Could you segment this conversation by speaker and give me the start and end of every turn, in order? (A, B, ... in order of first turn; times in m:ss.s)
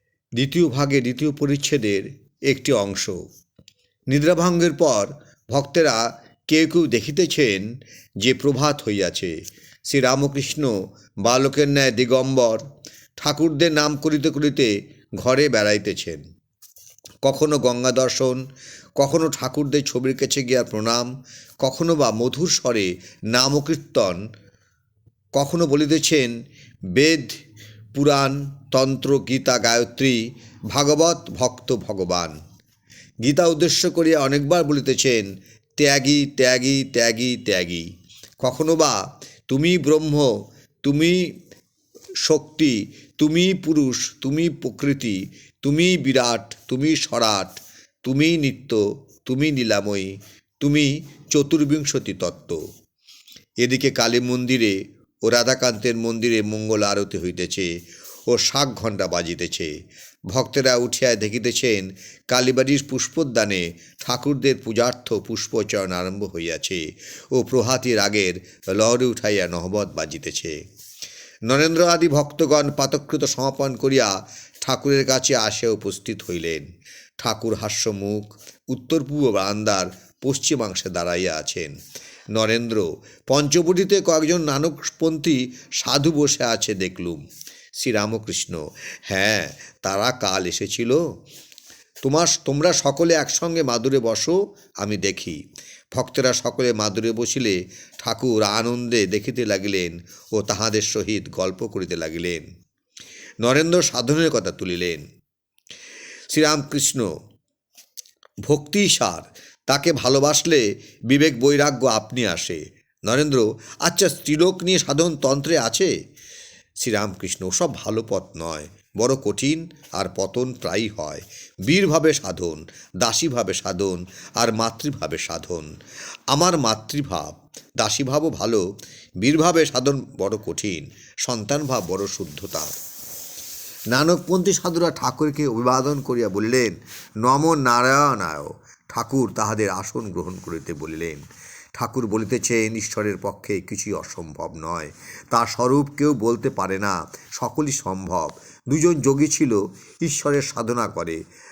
0:00.4-0:03.2 A
0:04.1-0:07.7 A
0:08.2-0:09.3 A
0:09.9-0:10.7 A
0:11.2-0:12.6 A
0:13.2-0:16.2 A
0:17.2-0:18.4 A
0:19.0-0:24.2 A
0:25.4-0:26.3 A
0:26.9-0:27.4 A
0:27.9-0:30.2 A
0:30.7-0:32.3 A
0:33.2-0:35.3 A
0:35.8-0:37.9 A
0:38.4-0:39.0 A
0:39.5-0:40.3 A
0:40.8-0:41.3 A
0:42.2-0:52.6 A
0:53.6-0:54.7 A
0:55.2-0:57.7 A
0:58.3-0:59.7 A
1:00.3-1:10.6 A
1:11.5-1:16.7 A
1:17.2-1:21.7 A
1:22.3-1:27.2 A
1:27.8-1:31.0 A
1:32.0-1:35.4 A
1:35.9-1:42.5 A
1:43.4-1:45.0 A
1:46.3-1:47.1 A
1:48.5-1:55.9 A
1:56.8-2:05.7 A
2:06.3-2:08.6 A
2:09.2-2:12.7 A
2:13.9-2:21.2 A
2:21.8-2:31.2 A